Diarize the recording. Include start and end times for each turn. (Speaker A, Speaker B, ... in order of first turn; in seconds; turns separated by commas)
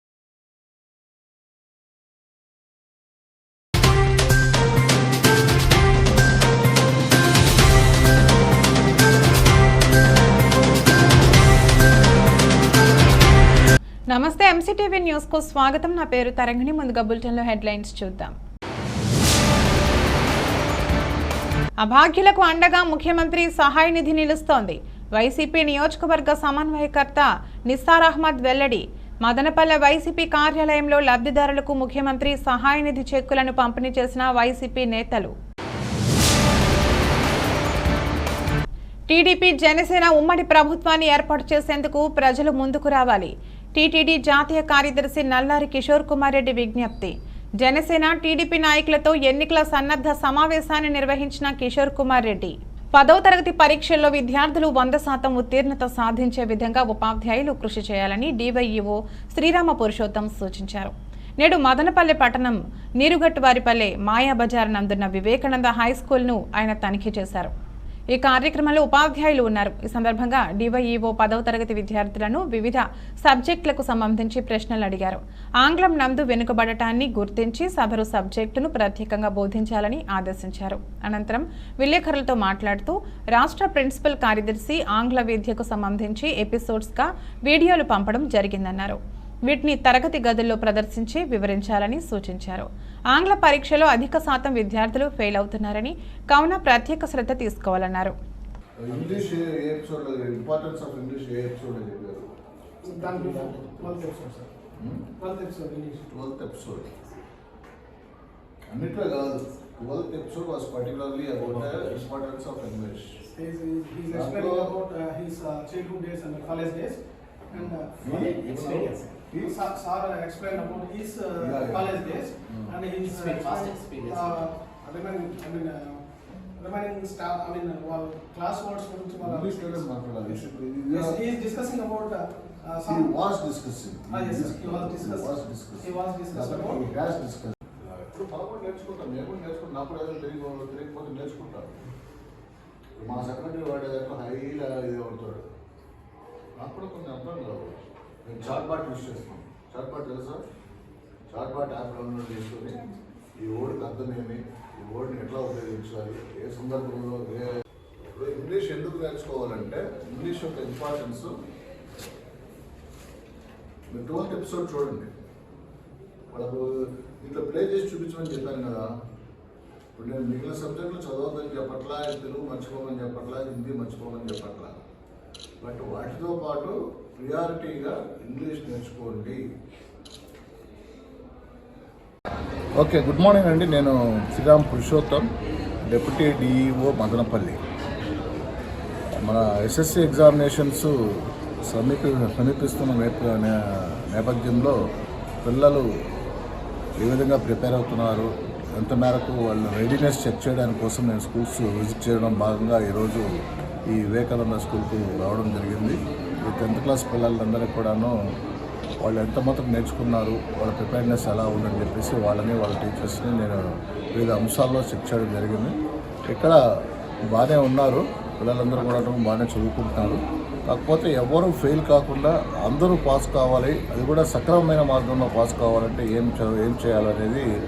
Speaker A: 14.1-18.4, Speaker A: 21.8-35.3, Speaker A: 39.1-67.5, Speaker A: 68.1-98.1, Speaker B: 98.8-102.3, Speaker C: 102.8-104.5, Speaker B: 103.0-103.9, Speaker B: 104.8-105.1, Speaker C: 105.2-106.0, Speaker B: 106.1-106.9, Speaker B: 108.7-113.2, Speaker C: 113.3-117.0, Speaker B: 114.1-114.8, Speaker C: 117.5-126.0, Speaker B: 117.5-119.6, Speaker B: 121.4-122.8, Speaker C: 126.6-133.1, Speaker B: 129.2-131.2, Speaker B: 132.8-141.8, Speaker C: 134.1-136.8, Speaker B: 143.0-145.5, Speaker B: 146.6-150.4, Speaker B: 151.3-152.8, Speaker B: 153.4-157.5, Speaker B: 158.1-161.3, Speaker B: 163.9-165.1, Speaker B: 166.3-166.7, Speaker B: 167.2-168.8, Speaker B: 169.9-174.8, Speaker B: 175.6-179.4, Speaker B: 182.8-185.3, Speaker B: 185.9-187.6, Speaker B: 189.2-190.9, Speaker B: 191.7-194.8, Speaker B: 195.4-195.8, Speaker B: 197.0-203.2, Speaker B: 203.9-208.1, Speaker B: 209.0-213.6, Speaker B: 214.2-215.8, Speaker B: 216.3-216.6, Speaker B: 217.3-227.5